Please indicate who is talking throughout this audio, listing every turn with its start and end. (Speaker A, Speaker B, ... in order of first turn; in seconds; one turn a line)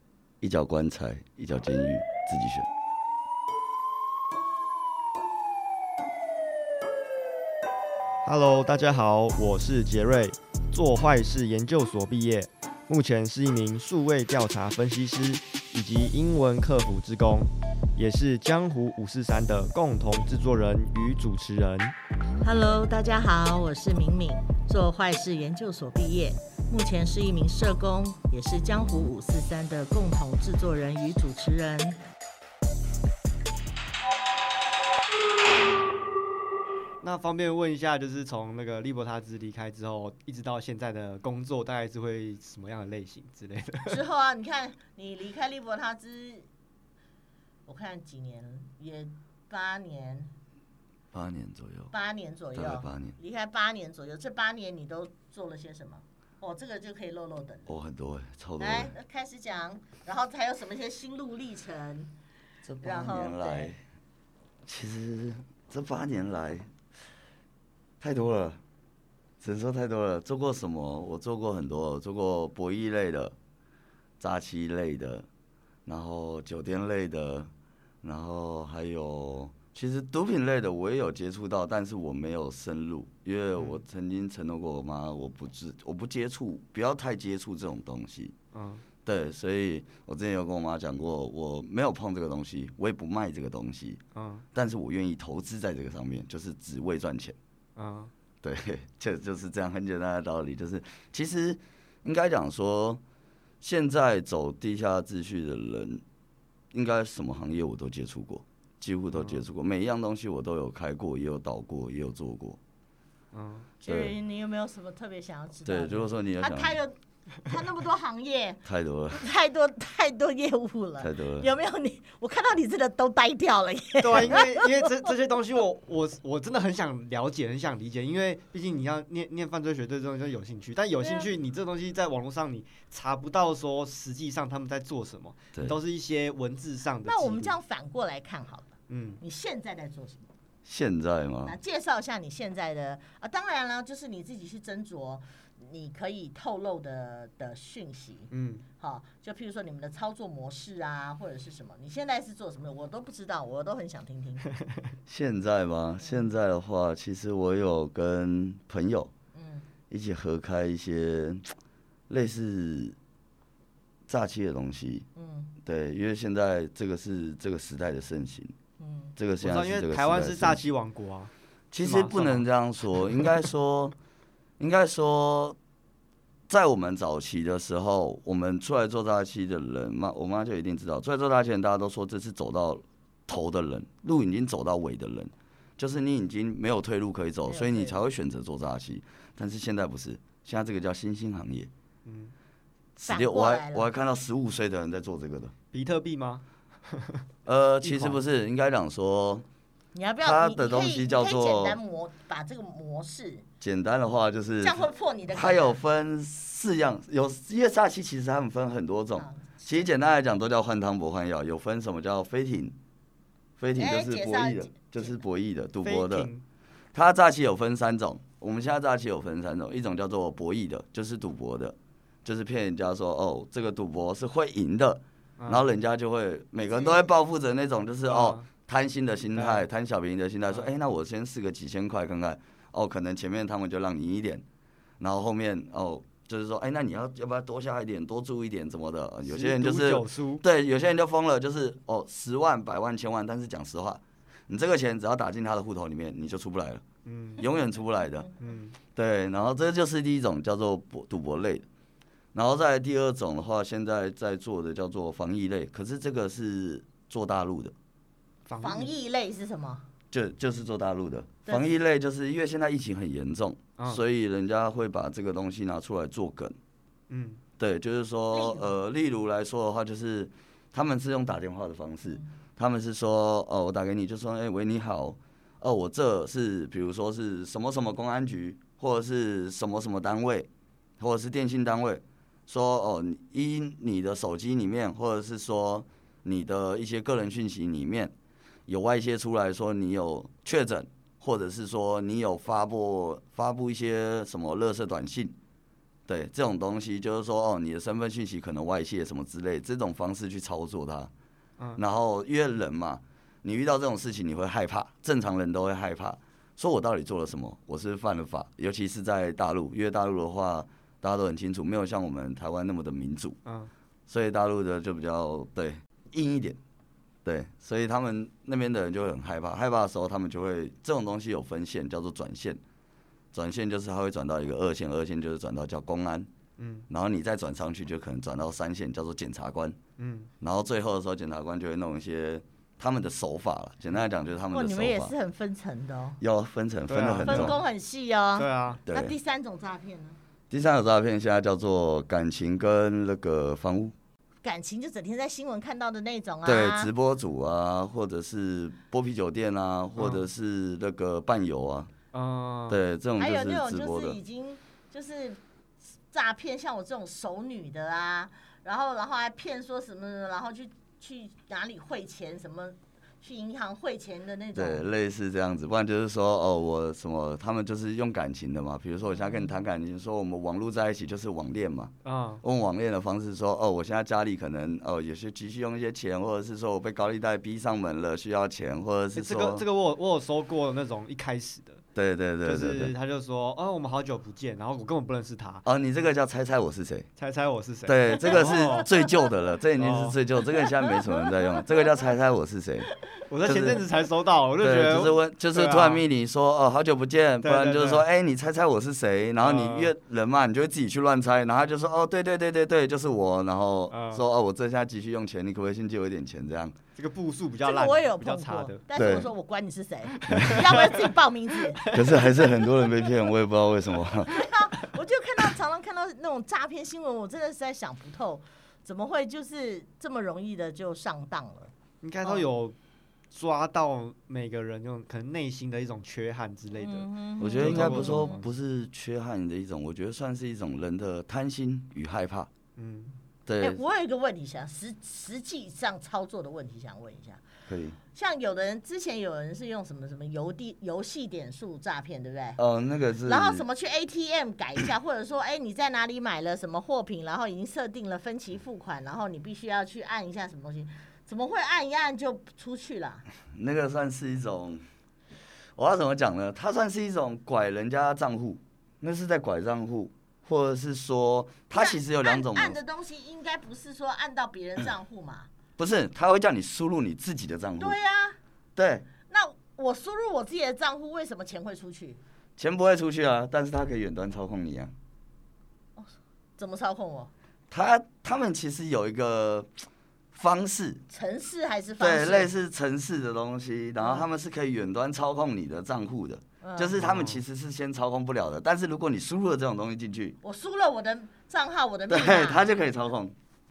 Speaker A: 0.4-2.7
Speaker B: 8.2-21.9
Speaker C: 22.4-32.0
Speaker B: 37.0-44.0
Speaker C: 43.9-46.5
Speaker C: 47.7-50.3
Speaker A: 51.1-51.9
Speaker C: 51.9-57.7
Speaker A: 52.5-53.2
Speaker A: 57.7-58.9
Speaker C: 58.6-62.1
Speaker A: 62.6-63.8
Speaker C: 62.8-63.7
Speaker A: 64.7-66.7
Speaker A: 68.0-68.6
Speaker A: 69.4-73.3
Speaker A: 74.2-75.3
Speaker A: 75.8-77.5
Speaker A: 78.0-88.3
Speaker B: 83.6-83.8
Speaker B: 88.5-88.8
Speaker A: 89.0-94.0
Speaker B: 94.2-94.4
Speaker A: 94.5-97.4
Speaker B: 97.8-98.1
Speaker A: 98.4-103.0
Speaker A: 103.6-106.0
Speaker A: 106.7-112.6
Speaker B: 109.1-109.4
Speaker B: 113.3-113.7
Speaker C: 113.8-124.9
Speaker A: 113.9-114.2
Speaker A: 115.7-116.8
Speaker A: 118.7-119.2
Speaker A: 121.0-121.5
Speaker B: 124.0-137.5
Speaker C: 131.0-131.3
Speaker C: 137.0-140.3
Speaker B: 138.9-139.2
Speaker A: 140.6-141.5
Speaker C: 141.4-154.5
Speaker B: 148.3-148.6
Speaker A: 155.1-159.1
Speaker C: 156.0-156.3
Speaker C: 159.3-159.7
Speaker A: 159.9-161.5
Speaker A: 162.1-163.0
Speaker A: 164.1-165.1
Speaker C: 165.2-165.5
Speaker A: 165.6-168.5
Speaker C: 168.8-169.2
Speaker A: 169.2-170.7
Speaker B: 169.4-173.3
Speaker A: 171.7-173.9
Speaker A: 174.6-175.6
Speaker A: 176.5-191.7
Speaker C: 187.5-188.0
Speaker B: 192.0-192.3
Speaker A: 192.9-195.5
Speaker C: 193.1-193.9
Speaker B: 195.7-197.2
Speaker A: 197.4-199.4
Speaker B: 197.8-198.2
Speaker C: 199.9-203.4
Speaker A: 200.2-201.8
Speaker A: 203.6-212.8
Speaker C: 204.6-205.8
Speaker C: 209.1-209.9
Speaker A: 213.6-216.3
Speaker C: 213.8-215.2
Speaker B: 215.8-216.4
Speaker A: 216.9-234.4
Speaker B: 225.4-225.7
Speaker C: 226.6-227.1
Speaker B: 228.1-228.4
Speaker B: 229.3-229.7
Speaker A: 235.0-246.8
Speaker B: 239.2-240.4
Speaker B: 247.1-247.4
Speaker A: 247.4-248.3
Speaker B: 248.4-248.7
Speaker A: 248.9-251.7
Speaker A: 252.3-257.7
Speaker B: 258.4-258.9
Speaker C: 258.6-259.9
Speaker A: 260.1-266.6
Speaker C: 261.4-261.7
Speaker B: 267.1-267.4
Speaker A: 267.6-288.1
Speaker C: 268.3-268.8
Speaker A: 288.7-295.3
Speaker A: 296.1-301.1
Speaker A: 301.8-313.4
Speaker B: 313.4-313.7
Speaker A: 314.1-316.6
Speaker A: 317.2-322.6
Speaker A: 323.3-326.3
Speaker B: 326.6-326.9
Speaker A: 326.9-329.8
Speaker B: 330.0-330.3
Speaker A: 330.4-335.1
Speaker C: 334.5-336.2
Speaker A: 336.2-337.6
Speaker B: 336.9-337.6
Speaker C: 337.2-340.2
Speaker B: 338.4-338.8
Speaker A: 338.9-339.1
Speaker A: 340.5-343.9
Speaker C: 344.4-346.9
Speaker A: 346.4-351.9
Speaker B: 350.0-350.2
Speaker B: 352.1-352.8
Speaker A: 352.7-354.2
Speaker C: 353.2-355.4
Speaker C: 356.1-364.9
Speaker A: 364.5-379.6
Speaker C: 369.1-369.6
Speaker B: 372.0-372.4
Speaker B: 379.1-381.8
Speaker A: 381.9-382.9
Speaker B: 382.4-385.6
Speaker A: 385.6-387.1
Speaker B: 387.2-388.9
Speaker A: 387.9-392.9
Speaker B: 389.8-390.2
Speaker B: 393.3-396.0
Speaker A: 393.4-393.8
Speaker A: 394.6-406.8
Speaker B: 397.4-398.1
Speaker B: 399.4-399.9
Speaker B: 403.9-404.2
Speaker B: 406.9-408.8
Speaker C: 407.6-411.9
Speaker A: 408.9-409.3
Speaker B: 410.2-411.1
Speaker A: 410.3-410.7
Speaker B: 411.7-412.5
Speaker A: 411.9-414.4
Speaker C: 414.2-421.7
Speaker B: 422.0-422.8
Speaker B: 423.3-428.5
Speaker C: 426.8-428.4
Speaker A: 427.4-432.5
Speaker B: 432.8-433.1
Speaker A: 433.4-433.8
Speaker C: 433.6-437.4
Speaker A: 437.7-438.0
Speaker C: 438.1-442.6
Speaker A: 442.6-443.6
Speaker C: 443.2-453.2
Speaker A: 453.5-454.8
Speaker A: 455.8-462.8
Speaker C: 461.7-465.5
Speaker A: 465.8-468.0
Speaker C: 467.8-468.4
Speaker A: 468.8-469.1
Speaker C: 469.3-472.2
Speaker A: 472.6-474.9
Speaker C: 475.9-477.3
Speaker A: 477.7-479.8
Speaker A: 480.3-481.0
Speaker C: 481.1-482.5
Speaker A: 482.0-490.4
Speaker C: 484.0-484.2
Speaker C: 486.6-487.0
Speaker B: 487.0-487.4
Speaker C: 490.4-492.6
Speaker A: 492.1-493.3